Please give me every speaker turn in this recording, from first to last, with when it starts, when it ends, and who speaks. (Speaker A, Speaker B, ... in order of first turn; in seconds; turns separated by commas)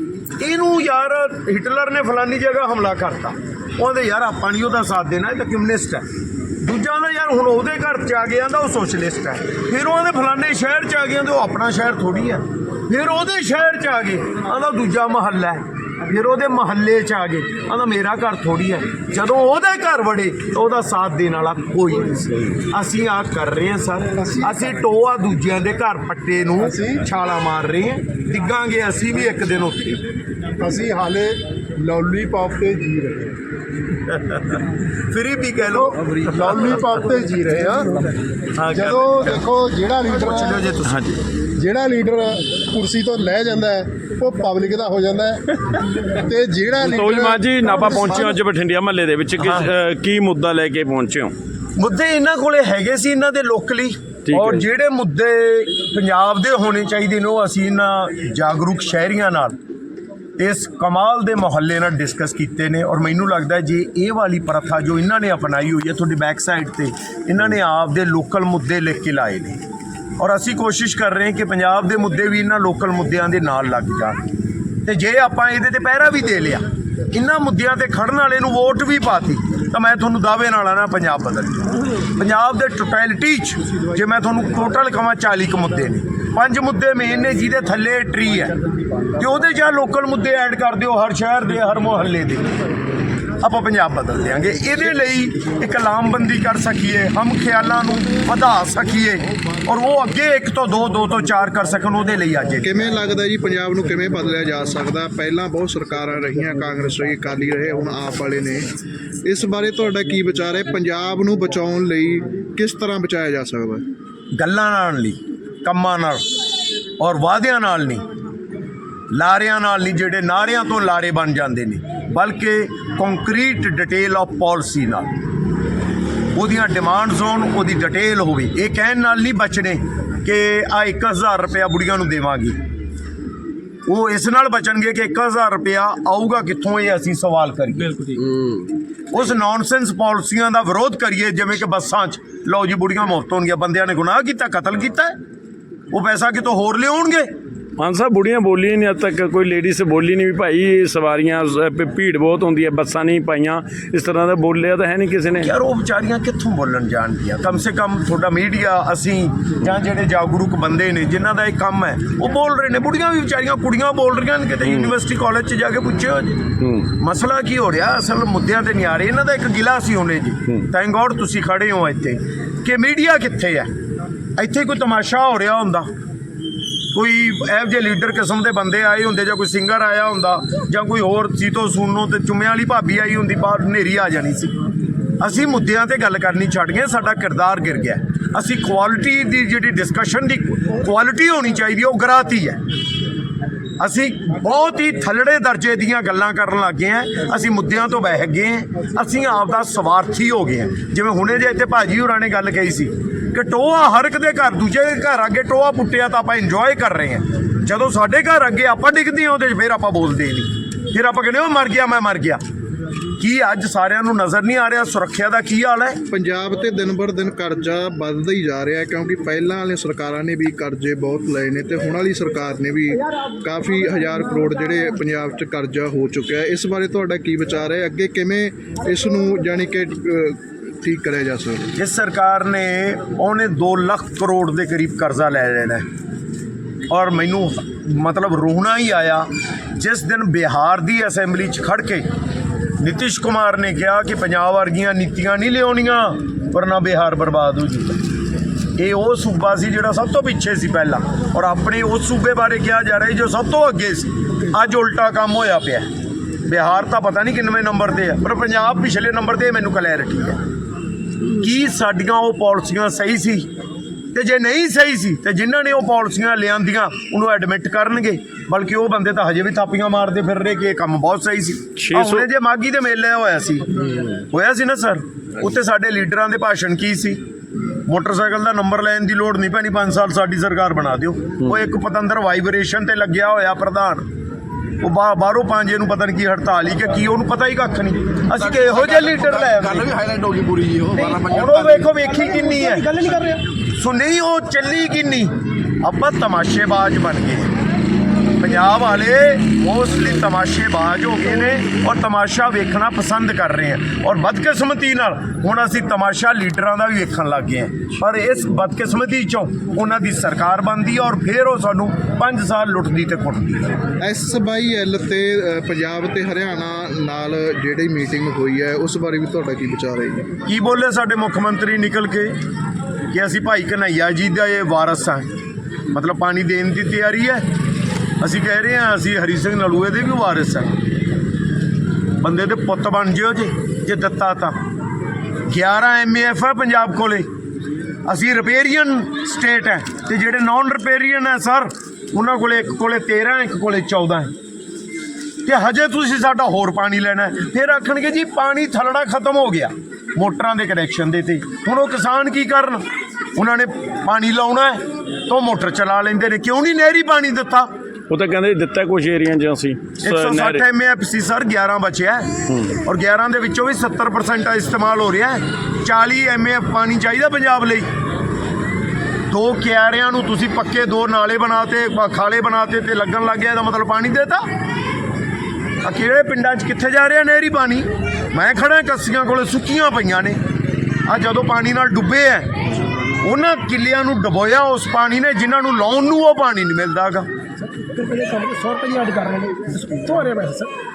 Speaker A: 0.4-6.0, Speaker A: 6.6-30.0, Speaker B: 24.2-24.6, Speaker B: 26.6-27.0, Speaker B: 30.6-33.3, Speaker A: 34.1-36.8, Speaker B: 35.7-38.1, Speaker A: 38.6-39.4, Speaker B: 38.7-40.7, Speaker A: 40.0-41.0, Speaker C: 40.9-41.2, Speaker B: 41.6-45.5, Speaker B: 46.1-48.4, Speaker C: 46.8-51.3, Speaker A: 49.4-49.7, Speaker A: 51.8-59.6, Speaker C: 54.3-54.6, Speaker A: 60.4-69.6, Speaker A: 70.2-74.2, Speaker A: 74.8-88.6, Speaker A: 89.1-92.5, Speaker A: 93.4-102.7, Speaker D: 102.6-108.7, Speaker D: 109.2-113.8, Speaker A: 114.4-116.2, Speaker A: 117.0-118.0, Speaker A: 119.1-125.1, Speaker A: 126.3-132.6, Speaker A: 133.9-138.1, Speaker A: 139.1-145.2, Speaker A: 145.9-147.3, Speaker C: 147.8-155.5, Speaker A: 155.4-173.7, Speaker C: 164.7-164.9, Speaker C: 166.6-166.9, Speaker A: 174.4-175.9, Speaker A: 176.9-184.5, Speaker A: 185.2-192.6, Speaker A: 193.8-212.4, Speaker A: 213.2-216.0, Speaker D: 216.1-231.7, Speaker A: 231.8-235.9, Speaker A: 236.9-242.1, Speaker A: 242.8-248.0, Speaker A: 248.8-255.9, Speaker A: 256.4-260.4, Speaker A: 261.3-263.5, Speaker A: 264.1-277.2, Speaker C: 271.8-272.3, Speaker A: 277.9-284.1, Speaker A: 284.8-290.1, Speaker A: 290.9-297.5, Speaker A: 298.3-313.8, Speaker D: 314.0-320.3, Speaker A: 320.4-322.3, Speaker A: 323.1-325.3, Speaker A: 325.9-327.5, Speaker A: 328.2-330.7, Speaker A: 332.2-334.6, Speaker A: 335.4-337.3, Speaker A: 338.1-344.3, Speaker A: 345.4-352.8, Speaker A: 353.4-357.7, Speaker C: 358.1-360.6, Speaker A: 360.0-367.9, Speaker A: 369.3-374.4, Speaker A: 375.8-380.4, Speaker A: 381.1-382.5, Speaker A: 383.0-387.3, Speaker E: 387.7-390.7